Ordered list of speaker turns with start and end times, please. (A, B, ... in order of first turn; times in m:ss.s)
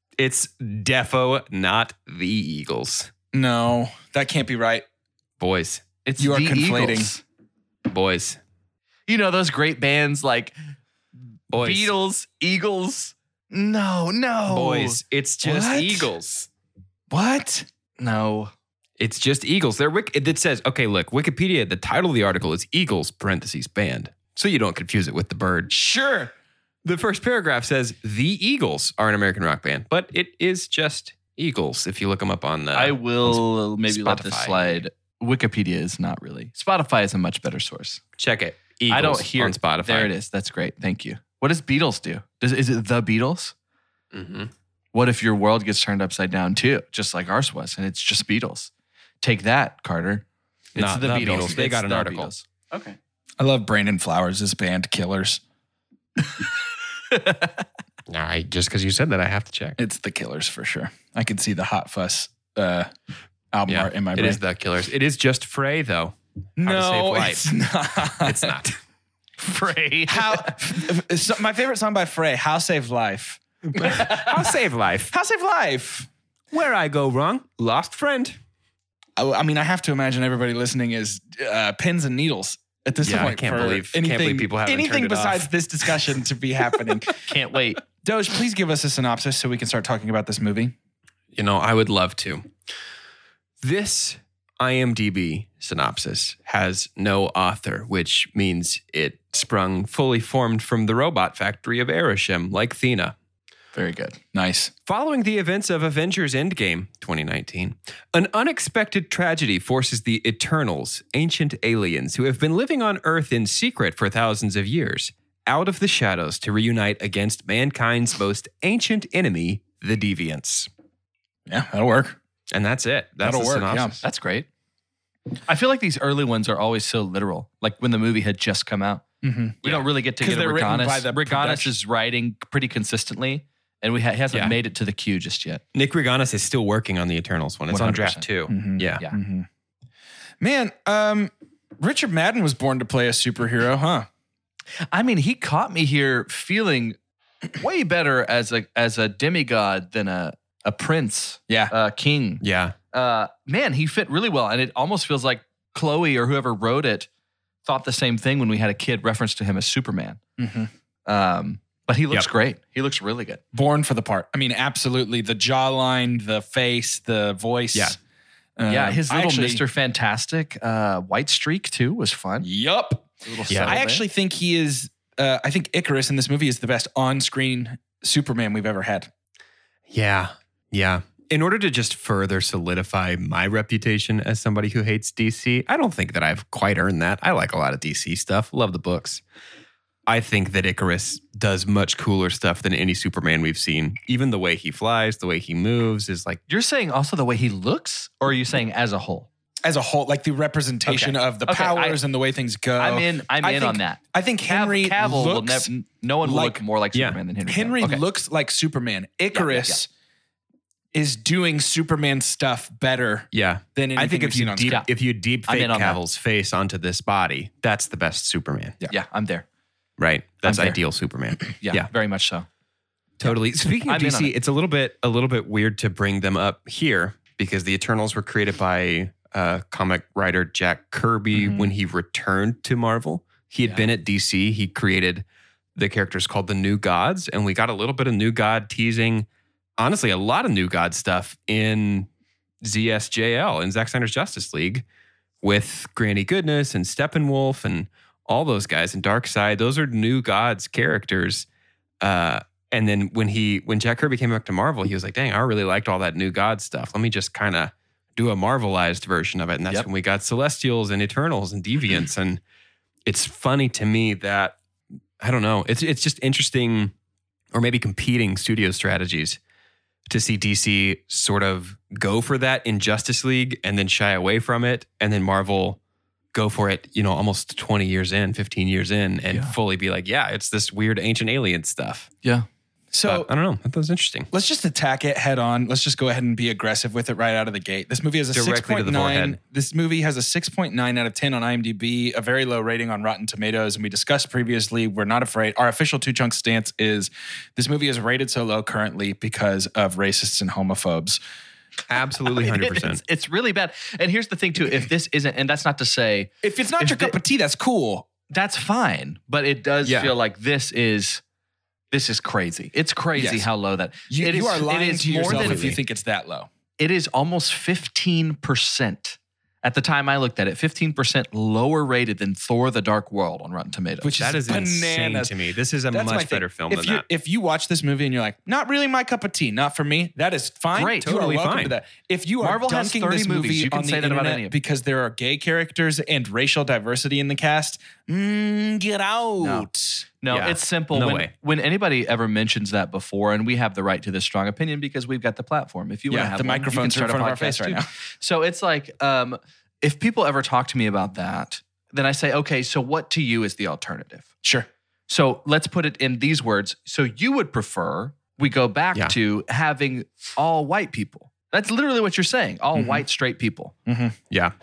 0:00.2-0:03.1 A
0:03.3-0:04.8 B
0:05.4-0:05.8 A
0:06.0-0:07.2 C
0:06.2-0:07.1 B
0:07.9-0:08.4 A
0:09.1-0:10.6 C
0:11.5-0:11.9 A
0:11.6-0:15.0 C
0:14.5-0:16.5 A
0:15.4-0:16.1 B
0:17.1-0:17.6 B
0:18.0-0:18.5 C
0:19.0-0:25.7 A
0:25.7-0:26.3 B
0:26.8-0:34.8 A
0:32.7-0:38.0 C
0:38.2-0:40.1 A
0:38.9-0:43.5 C
0:44.1-0:44.5 A
0:44.9-0:48.7 C
0:49.2-0:53.0 C
0:50.7-0:52.3 A
0:53.4-0:55.4 B
0:57.1-0:57.5 C
0:58.1-0:59.8 A
0:59.8-1:02.9 B
1:03.5-1:04.4 B
1:03.7-1:07.5 A
1:06.6-1:08.6 B
1:08.1-1:08.8 A
1:09.4-1:10.6 C
1:10.1-1:14.3 B
1:13.7-1:15.1 A
1:15.1-1:16.1 B
1:16.5-1:18.4 A
1:19.2-1:27.2 B
1:23.0-1:26.1 A
1:27.2-1:27.8 C
1:28.0-1:30.7 B
1:31.3-1:32.5 A
1:33.6-1:43.2 A
1:43.7-1:44.2 C
1:44.3-1:44.7 B
1:44.9-2:00.7 A
2:01.5-2:02.2 B
2:02.5-2:04.0 A
2:03.2-2:04.0 B
2:04.0-2:04.5 C
2:05.4-2:09.0 C
2:09.2-2:09.6 B
2:09.6-2:15.6 C
2:10.2-2:11.7 B
2:15.7-2:19.0 A
2:17.7-2:18.2 C
2:18.5-2:19.4 B
2:20.4-2:24.1 B
2:24.9-2:27.0 C
2:27.6-2:37.1 C
2:32.4-2:32.8 A
2:37.6-2:40.2 C
2:40.4-2:40.7 B
2:41.0-2:43.4 C
2:43.5-2:48.0 B
2:48.6-2:49.6 B
2:48.7-2:52.5 C
2:52.4-2:53.1 B
2:53.2-2:54.0 C
2:53.5-2:53.8 A
2:53.6-2:59.1 B
2:59.9-3:09.2 A
3:10.1-3:16.4 A
3:16.5-3:19.3 C
3:19.6-3:25.7 B
3:20.8-3:22.0 C
3:22.8-3:28.0 C
3:26.2-3:26.6 B
3:26.9-3:27.2 A
3:27.5-3:29.9 B
3:29.3-3:29.8 C
3:30.9-3:34.8 B
3:33.3-3:38.8 A
3:35.5-3:36.0 C
3:38.9-3:39.4 C
3:40.0-3:41.9 A
3:40.4-3:40.8 C
3:41.6-3:42.5 C
3:43.2-3:55.2 A
3:43.8-3:44.3 C
3:51.3-3:51.6 B
3:53.6-3:53.9 C
3:55.8-3:59.3 A
3:59.8-4:02.1 A
4:02.6-4:04.8 A
4:05.4-4:11.5 A
4:12.0-4:22.4 A
4:23.0-4:24.6 A
4:25.2-4:26.9 A
4:27.5-4:29.4 A
4:30.1-4:35.8 A
4:36.3-4:42.1 A
4:42.9-4:43.3 B
4:43.0-4:44.3 A
4:44.3-5:01.2 B
4:48.3-4:49.4 A
5:01.9-5:03.0 A
5:02.2-5:07.2 C
5:06.4-5:08.1 B
5:08.3-5:11.2 C
5:09.8-5:10.1 A
5:11.9-5:15.7 C
5:13.2-5:13.5 B
5:14.1-5:16.5 B
5:15.2-5:15.8 A
5:16.8-5:24.1 C
5:24.0-5:25.3 B
5:24.2-5:27.0 A
5:25.9-5:40.0 B
5:30.7-5:31.1 C
5:30.9-5:31.8 A
5:32.4-5:34.5 C
5:39.4-5:39.7 C
5:40.2-5:54.3 C
5:40.3-5:41.3 A
5:46.1-5:47.9 B
5:55.1-6:03.7 C
6:02.7-6:03.0 B
6:03.9-6:04.1 B